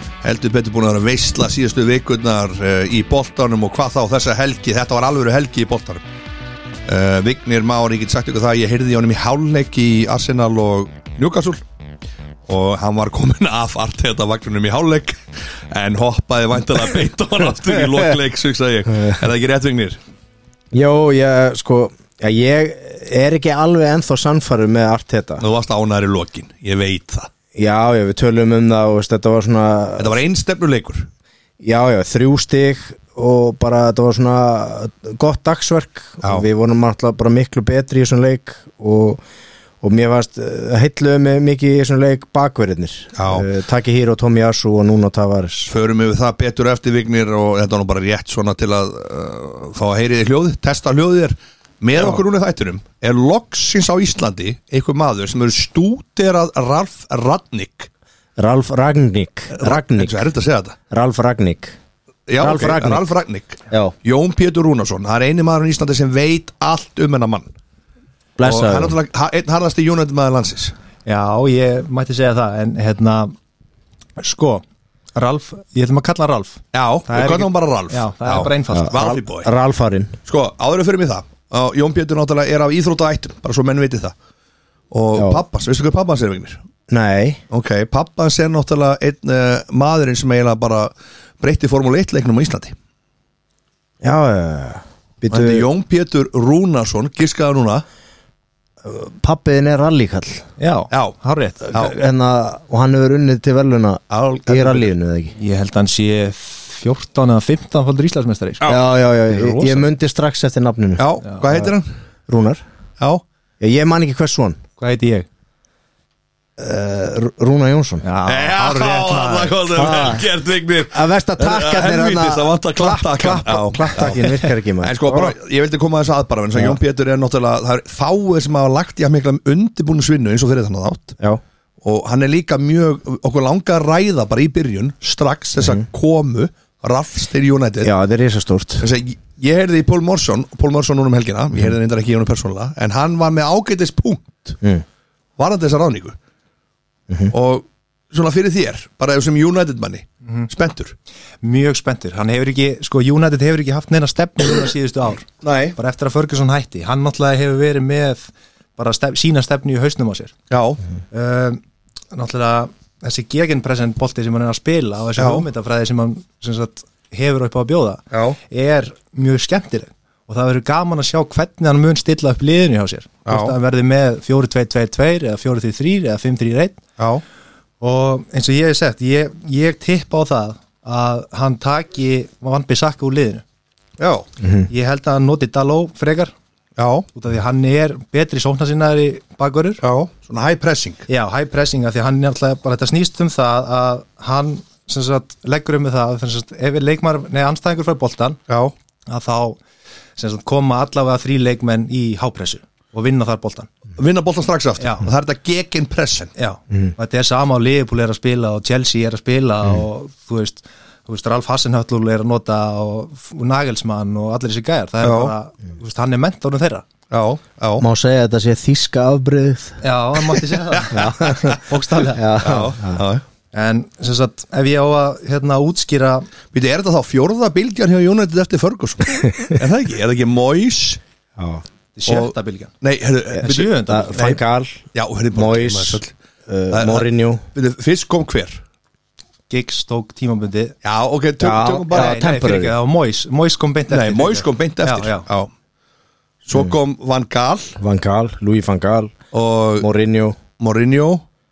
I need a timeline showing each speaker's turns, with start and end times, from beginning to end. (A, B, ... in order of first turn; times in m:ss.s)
0:00.2-0:06.0 A
0:06.8-0:11.6 A
0:12.5-0:20.0 A
0:20.7-0:25.4 B
0:25.4-0:27.3 A
0:27.5-0:30.2 B
0:30.0-0:31.1 A
0:31.6-0:39.2 B
0:39.8-0:45.7 B
0:43.2-0:43.5 A
0:45.7-0:57.9 A
0:52.0-0:52.2 B
0:58.4-1:00.2 B
0:59.5-1:00.8 A
1:00.9-1:01.8 B
1:02.3-1:07.5 A
1:02.4-1:03.0 B
1:03.7-1:03.9 B
1:08.4-1:09.0 B
1:08.4-1:10.7 A
1:11.0-1:13.3 C
1:14.2-1:14.6 C
1:15.1-1:19.0 C
1:16.7-1:19.5 A
1:18.7-1:20.2 B
1:20.3-1:24.1 A
1:24.9-1:26.6 A
1:25.1-1:25.4 B
1:26.9-1:27.4 B
1:27.5-1:32.7 A
1:34.0-1:35.6 B
1:35.3-1:37.8 A
1:38.8-1:40.4 B
1:40.6-1:41.7 C
1:41.6-1:45.3 B
1:44.1-1:44.9 A
1:45.4-1:48.7 C
1:48.7-1:51.7 B
1:49.3-1:49.8 C
1:51.0-1:51.9 A
1:51.2-1:51.5 C
1:52.3-1:52.6 B
1:53.6-1:54.6 B
1:54.8-1:55.3 C
1:56.6-1:58.0 B
1:58.0-1:59.7 C
1:58.2-2:11.2 A
1:59.8-2:00.3 B
2:00.9-2:05.3 B
2:03.9-2:04.5 C
2:06.5-2:06.8 B
2:11.8-2:17.9 A
2:15.6-2:15.8 B
2:17.8-2:18.9 B
2:18.8-2:24.6 A
2:25.4-2:26.2 A
2:27.1-2:27.3 B
2:27.3-2:30.9 A
2:31.4-2:40.3 C
2:35.4-2:35.8 A
2:40.5-2:40.8 A
2:41.1-2:41.6 C
2:42.1-2:56.8 C
2:45.2-2:45.4 A
2:48.1-2:48.4 A
2:53.3-2:53.5 A
2:57.0-2:57.2 A
2:57.8-3:03.4 C
3:04.0-3:04.3 A
3:04.6-3:06.3 C
3:06.8-3:07.1 A
3:07.1-3:09.8 C
3:09.8-3:11.0 A
3:11.1-3:18.4 C
3:19.1-3:19.6 C
3:20.2-3:23.7 C
3:24.0-3:26.3 A
3:24.8-3:25.0 C
3:26.3-3:36.9 C
3:35.0-3:35.3 A
3:37.1-3:37.8 A
3:37.8-3:39.8 B
3:39.8-3:42.2 C
3:40.8-3:41.6 A
3:40.9-3:41.6 B
3:42.1-3:43.0 B
3:42.4-3:43.2 A
3:43.5-3:46.3 C
3:46.5-3:51.0 A
3:49.1-3:49.6 B
3:51.4-3:51.6 B
3:52.0-3:52.7 C
3:52.1-3:53.8 A
3:53.4-3:57.4 B
3:53.4-3:54.4 C
3:54.9-3:56.1 A
3:56.7-3:58.6 A
3:59.5-4:00.8 C
4:00.8-4:02.2 A
4:01.4-4:02.7 B
4:01.9-4:05.3 C
4:03.9-4:05.5 A
4:06.4-4:07.8 A
4:07.8-4:09.2 B
4:09.3-4:09.9 A
4:09.8-4:10.4 B
4:10.6-4:11.2 A